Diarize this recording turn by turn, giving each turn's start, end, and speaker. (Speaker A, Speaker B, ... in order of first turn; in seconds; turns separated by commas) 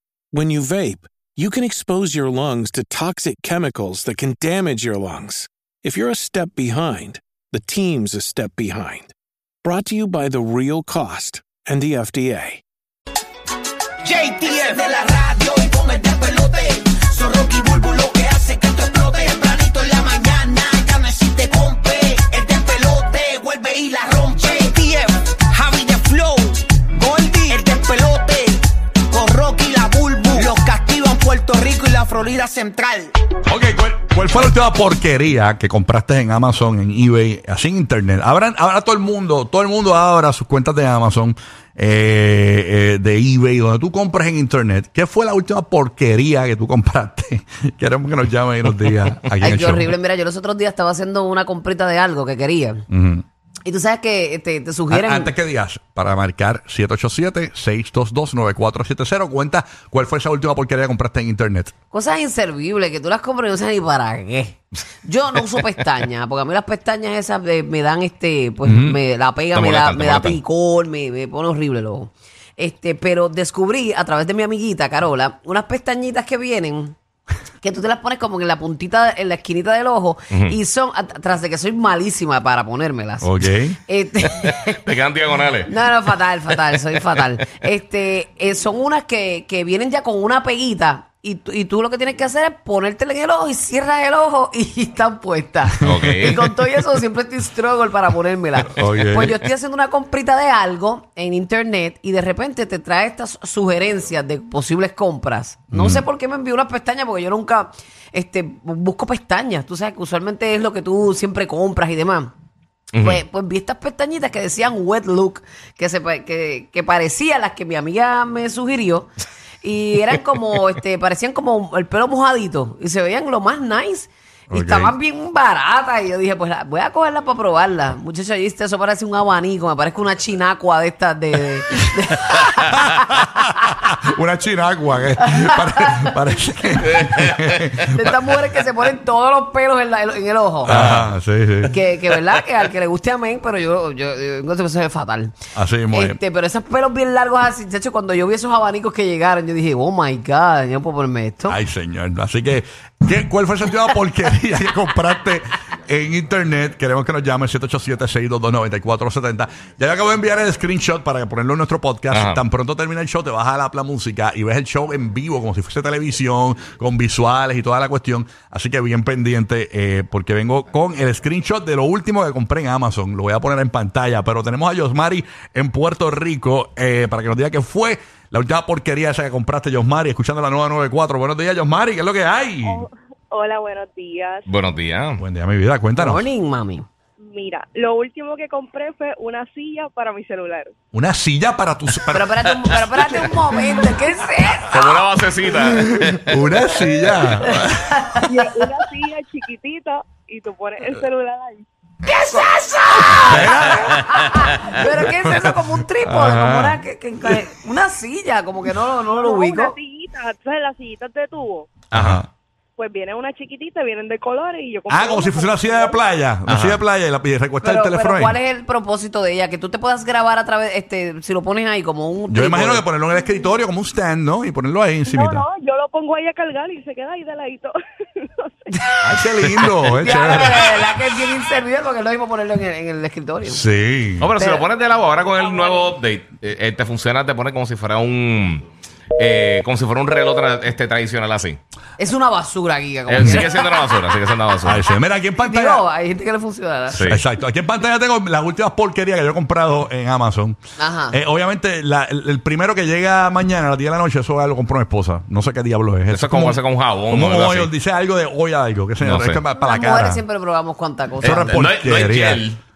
Speaker A: 0.3-12.6, Speaker B: 14.0-33.1, Speaker C: 33.5-49.9, Speaker D: 49.4-52.9, Speaker C: 52.9-53.2, Speaker D: 53.6-55.3, Speaker C: 54.9-61.7, Speaker D: 61.9-76.9, Speaker C: 68.6-69.0, Speaker E: 69.5-70.4, Speaker D: 77.6-84.8, Speaker C: 83.2-83.8, Speaker E: 84.8-85.7, Speaker D: 85.7-112.3, Speaker E: 95.8-96.4, Speaker C: 95.9-96.4, Speaker C: 98.7-99.3, Speaker C: 105.7-106.0, Speaker E: 112.9-113.2, Speaker D: 113.0-133.9, Speaker C: 124.5-124.9, Speaker C: 133.1-138.1, Speaker D: 135.2-136.1, Speaker E: 137.0-137.6, Speaker D: 137.8-140.7, Speaker C: 140.6-141.8, Speaker E: 140.7-141.1, Speaker D: 141.7-145.4, Speaker C: 145.5-146.2, Speaker D: 145.9-151.6, Speaker C: 151.5-182.8, Speaker E: 162.1-162.4, Speaker F: 182.6-184.4, Speaker E: 184.4-185.2, Speaker C: 185.2-186.2, Speaker D: 185.9-186.9, Speaker F: 187.2-190.7, Speaker C: 190.9-192.3, Speaker D: 192.1-194.8, Speaker E: 194.7-196.3, Speaker C: 194.7-195.0, Speaker C: 195.6-198.1, Speaker D: 197.7-198.5, Speaker F: 198.2-201.7, Speaker D: 202.0-209.7, Speaker C: 203.1-207.4, Speaker E: 203.4-204.2, Speaker F: 209.2-211.7, Speaker E: 211.9-212.2, Speaker C: 211.9-212.3, Speaker F: 212.8-216.0, Speaker C: 214.9-218.4, Speaker E: 216.5-216.8, Speaker D: 217.6-222.8, Speaker C: 222.3-225.4, Speaker F: 225.1-228.7, Speaker C: 229.0-231.0, Speaker D: 229.9-233.6, Speaker C: 233.4-234.3, Speaker E: 234.2-238.7, Speaker D: 234.3-234.7, Speaker F: 235.3-235.8, Speaker E: 239.2-241.6, Speaker D: 242.0-244.0, Speaker E: 243.1-244.9, Speaker C: 243.1-243.5, Speaker C: 244.6-245.8, Speaker D: 245.4-247.1, Speaker E: 246.9-247.2, Speaker C: 247.1-250.6, Speaker D: 250.8-251.2, Speaker C: 251.1-260.2, Speaker E: 256.1-257.7, Speaker E: 259.0-259.4, Speaker D: 259.5-261.6, Speaker C: 261.2-262.4, Speaker E: 261.2-262.6